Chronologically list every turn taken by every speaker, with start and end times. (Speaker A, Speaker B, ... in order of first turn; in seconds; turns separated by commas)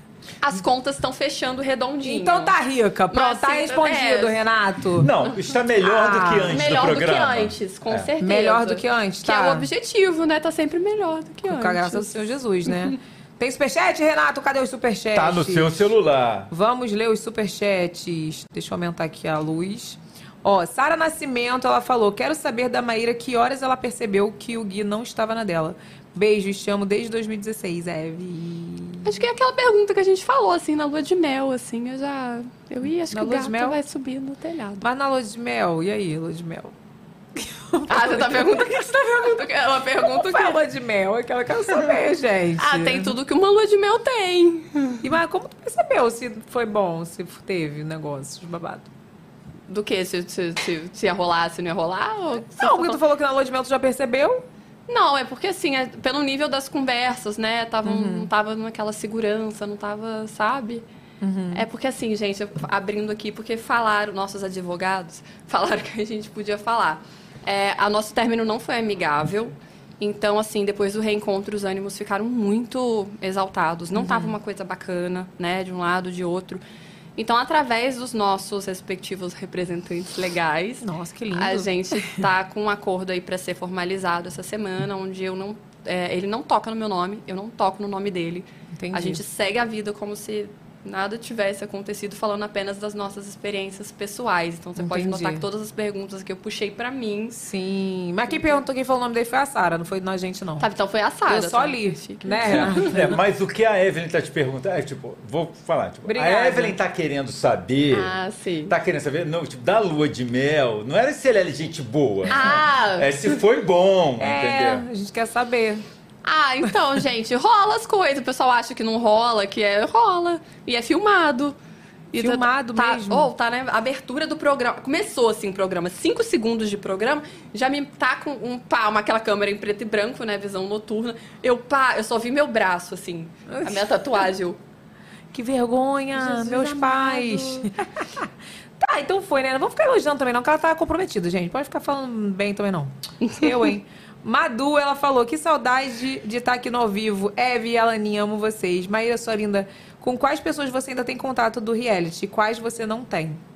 Speaker A: 0.4-2.5, Speaker B: 2.0-5.1, Speaker A: 3.1-4.4, Speaker C: 5.0-8.1, Speaker B: 5.8-6.6, Speaker A: 6.5-12.9, Speaker B: 8.2-9.7, Speaker B: 11.4-15.8, Speaker C: 15.1-16.5, Speaker B: 16.5-29.1, Speaker A: 29.0-34.8, Speaker B: 33.1-33.8, Speaker B: 34.8-36.7, Speaker B: 37.4-38.6, Speaker A: 37.9-40.6, Speaker B: 40.0-43.1, Speaker A: 42.6-45.0, Speaker B: 45.0-48.9, Speaker A: 49.7-53.0, Speaker B: 52.5-54.4, Speaker A: 54.9-60.8, Speaker B: 57.9-58.3, Speaker B: 61.2-61.6, Speaker A: 61.5-76.6, Speaker B: 74.0-74.3, Speaker A: 77.2-97.3, Speaker B: 80.8-82.2, Speaker B: 88.7-89.2, Speaker B: 94.8-95.4, Speaker B: 97.3-100.7, Speaker A: 100.6-102.9, Speaker B: 101.3-103.1, Speaker C: 102.7-108.2, Speaker B: 106.0-106.8, Speaker A: 107.9-108.7, Speaker C: 108.7-114.8, Speaker A: 112.3-113.3, Speaker B: 114.2-115.8, Speaker A: 116.2-121.5, Speaker A: 122.1-134.6, Speaker B: 122.2-123.3, Speaker B: 133.5-133.8, Speaker B: 135.3-138.2, Speaker A: 136.1-137.7, Speaker B: 138.8-153.4, Speaker A: 143.2-143.7